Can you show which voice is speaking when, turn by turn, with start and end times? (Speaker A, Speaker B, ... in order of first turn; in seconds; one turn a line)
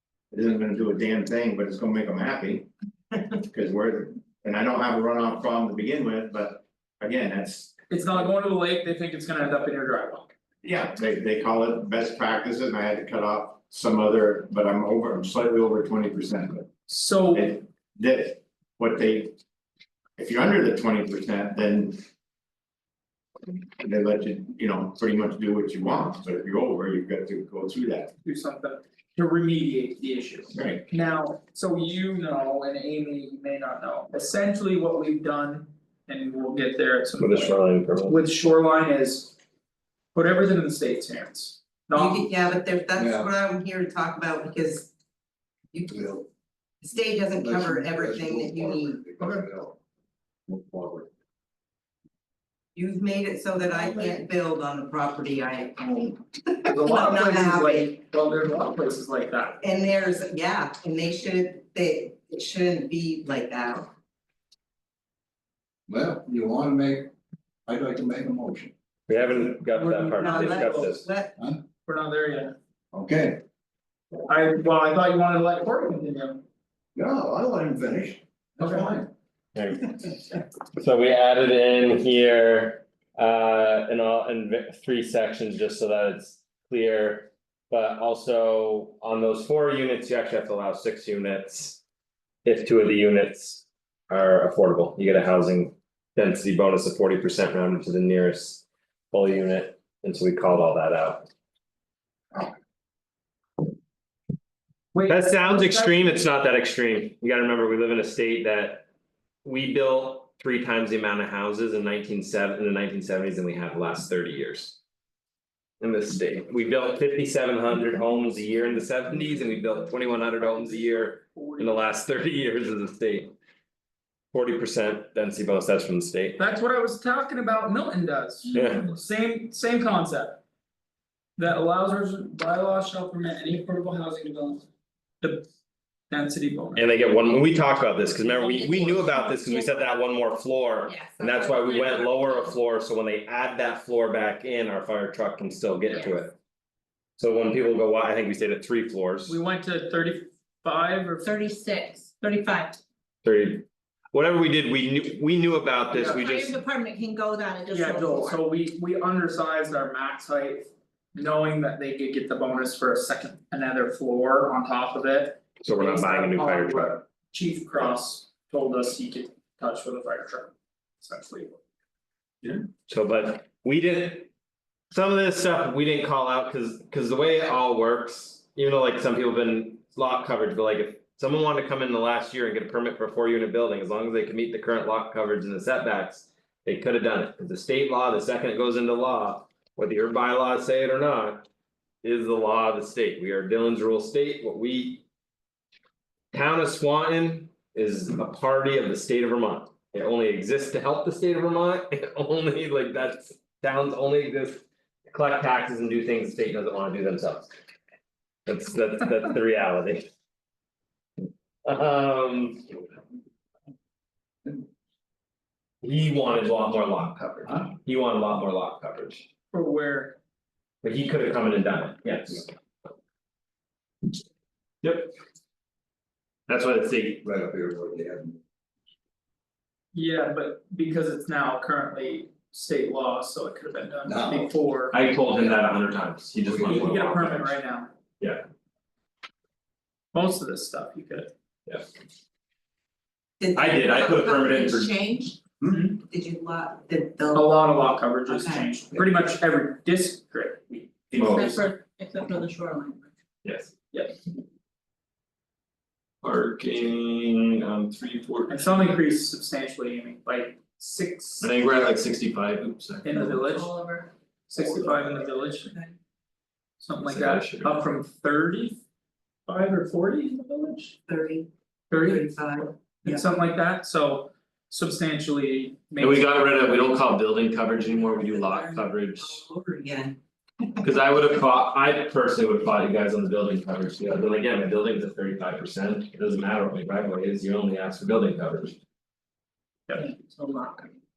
Speaker A: 0.3-2.7
Speaker A: 3.3-8.2
Speaker B: 7.9-10.3
Speaker A: 10.6-16.7
Speaker B: 16.9-17.6
Speaker A: 17.3-19.4
Speaker A: 20.2-22.0
Speaker A: 23.8-28.1
Speaker B: 28.2-39.4
Speaker A: 30.5-30.9
Speaker C: 37.2-38.2
Speaker B: 40.1-42.3
Speaker D: 42.0-44.9
Speaker E: 43.0-43.3
Speaker E: 45.9-46.2
Speaker D: 46.8-49.0
Speaker E: 47.4-49.8
Speaker E: 50.5-51.1
Speaker D: 52.8-57.9
Speaker B: 56.7-59.6
Speaker D: 59.6-63.9
Speaker E: 65.9-67.1
Speaker E: 67.7-68.7
Speaker C: 69.1-71.1
Speaker B: 69.7-71.0
Speaker D: 70.2-71.3
Speaker E: 71.4-71.6
Speaker B: 71.8-72.6
Speaker E: 72.9-73.4
Speaker B: 74.3-76.4
Speaker E: 77.0-79.1
Speaker B: 78.6-79.0
Speaker C: 79.5-80.2
Speaker C: 80.8-91.8
Speaker C: 92.5-101.3
Speaker B: 104.9-106.3
Speaker C: 105.1-108.9
Speaker C: 109.5-114.8
Speaker C: 115.8-123.3
Speaker B: 120.0-122.0
Speaker C: 124.3-126.4
Speaker B: 126.4-130.4
Speaker C: 128.5-128.9
Speaker B: 131.4-134.7
Speaker B: 135.2-135.5
Speaker B: 136.1-136.9
Speaker C: 136.8-146.3
Speaker B: 138.5-139.0
Speaker F: 139.3-139.8
Speaker F: 141.2-142.2
Speaker C: 147.2-149.4
Speaker B: 149.3-151.4
Speaker F: 151.5-152.8
Speaker C: 153.2-156.6
Speaker B: 155.9-156.3
Speaker F: 156.3-157.6
Speaker B: 157.7-171.6
Speaker C: 165.6-167.0
Speaker C: 172.9-174.3
Speaker C: 174.9-191.5
Speaker C: 192.0-195.0
Speaker C: 196.3-207.5
Speaker C: 208.5-210.1
Speaker C: 211.7-212.8
Speaker C: 215.8-219.3
Speaker E: 217.5-217.7
Speaker B: 219.5-220.2
Speaker C: 220.8-222.5
Speaker C: 224.8-225.1
Speaker C: 226.5-227.2
Speaker E: 227.2-228.4
Speaker B: 229.9-235.0
Speaker E: 234.1-234.6
Speaker C: 234.9-237.6
Speaker B: 236.7-237.9
Speaker B: 240.1-241.3
Speaker D: 243.4-245.3
Speaker C: 243.6-245.0
Speaker B: 245.7-246.0
Speaker D: 245.9-247.5
Speaker B: 247.3-251.7
Speaker D: 248.3-248.7
Speaker C: 251.2-251.6
Speaker F: 251.7-252.0
Speaker C: 253.4-253.7
Speaker B: 253.9-254.2
Speaker C: 256.2-259.0
Speaker B: 258.5-261.8
Speaker C: 261.4-263.5
Speaker B: 263.0-265.8
Speaker C: 264.6-265.3
Speaker B: 266.8-268.8
Speaker C: 267.0-267.9
Speaker B: 269.5-271.0
Speaker D: 271.1-271.5
Speaker B: 271.9-272.3
Speaker D: 272.0-272.7
Speaker B: 273.0-276.5
Speaker C: 276.0-279.4
Speaker D: 278.1-280.2
Speaker C: 280.8-288.8
Speaker B: 289.9-290.1